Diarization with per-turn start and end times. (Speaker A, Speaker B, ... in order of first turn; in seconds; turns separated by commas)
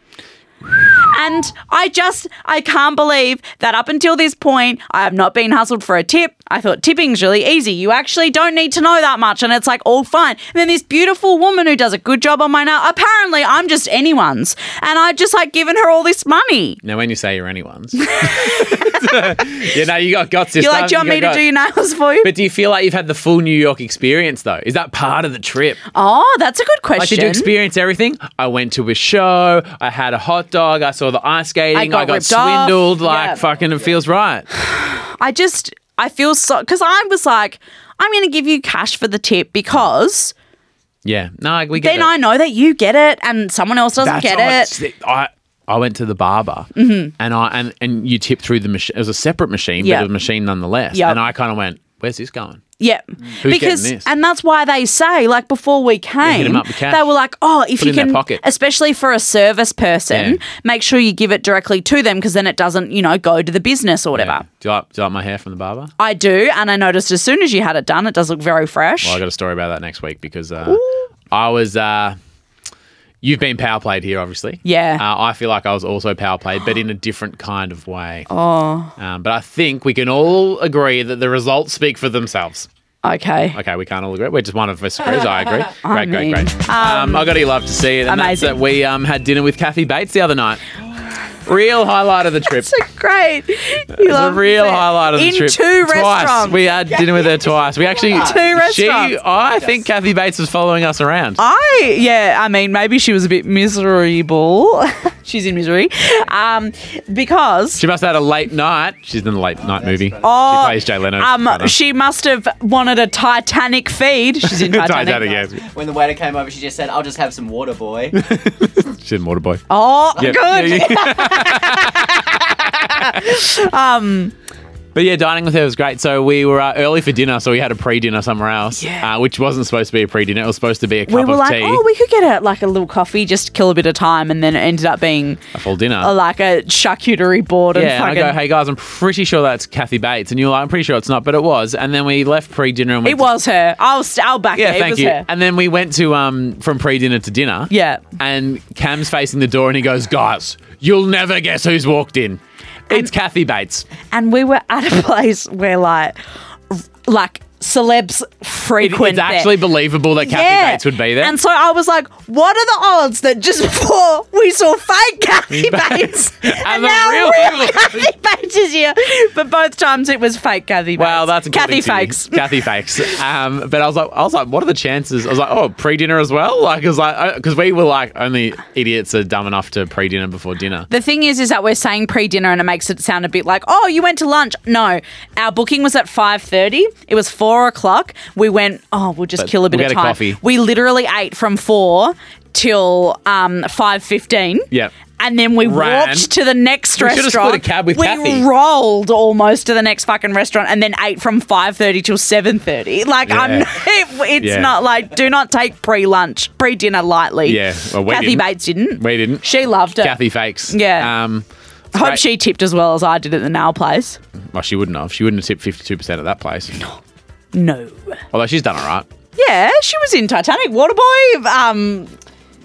Speaker A: 0.8-16.8, Speaker B: 16.8-21.4, Speaker A: 18.1-19.6, Speaker A: 20.6-22.3, Speaker B: 22.2-25.8, Speaker A: 25.9-27.5, Speaker B: 27.0-34.5, Speaker A: 31.7-33.4, Speaker C: 33.4-33.9, Speaker A: 34.5-40.3, Speaker B: 41.0-42.1, Speaker A: 41.7-44.7, Speaker B: 44.0-52.6, Speaker A: 46.8-47.1, Speaker A: 49.8-50.1, Speaker A: 50.9-51.2, Speaker A: 52.8-64.4, Speaker B: 53.4-54.1, Speaker B: 56.2-57.0, Speaker B: 57.8-58.4, Speaker B: 60.1-60.4, Speaker B: 64.1-65.9, Speaker A: 66.0-69.2, Speaker B: 69.0-72.2, Speaker A: 70.6-71.0, Speaker B: 73.2-78.3, Speaker A: 74.6-75.0, Speaker A: 78.3-78.9, Speaker B: 79.0-82.7, Speaker A: 83.0-83.6, Speaker B: 83.5-90.6, Speaker A: 85.8-87.3, Speaker A: 88.0-88.6, Speaker B: 91.4-92.7, Speaker A: 92.5-96.6, Speaker B: 93.9-101.4, Speaker C: 97.1-98.5, Speaker A: 98.1-99.1, Speaker C: 99.4-99.8, Speaker A: 101.4-107.8, Speaker B: 107.8-111.7, Speaker C: 109.6-110.3, Speaker A: 110.2-115.4, Speaker B: 114.4-115.6, Speaker C: 115.5-118.2, Speaker B: 118.1-119.6, Speaker A: 119.7-124.3, Speaker B: 120.2-122.4, Speaker B: 124.9-131.8, Speaker A: 128.8-129.1, Speaker A: 131.1-135.5, Speaker B: 135.5-136.1, Speaker A: 136.0-138.4, Speaker B: 137.7-143.3, Speaker A: 143.0-145.2, Speaker B: 144.5-153.9, Speaker A: 147.7-148.0, Speaker A: 154.1-156.2, Speaker A: 156.7-159.5, Speaker B: 158.8-161.3, Speaker A: 160.2-172.6, Speaker B: 165.5-168.1, Speaker B: 171.0-180.9, Speaker A: 180.9-210.2, Speaker B: 189.4-190.4, Speaker B: 195.6-196.3, Speaker B: 197.0-198.4, Speaker B: 203.2-203.7, Speaker B: 204.4-204.7, Speaker B: 207.4-209.4, Speaker B: 210.0-212.2, Speaker A: 210.7-211.1, Speaker A: 211.9-214.2, Speaker B: 214.5-216.8, Speaker A: 217.5-218.2, Speaker B: 218.3-219.1, Speaker A: 219.3-222.1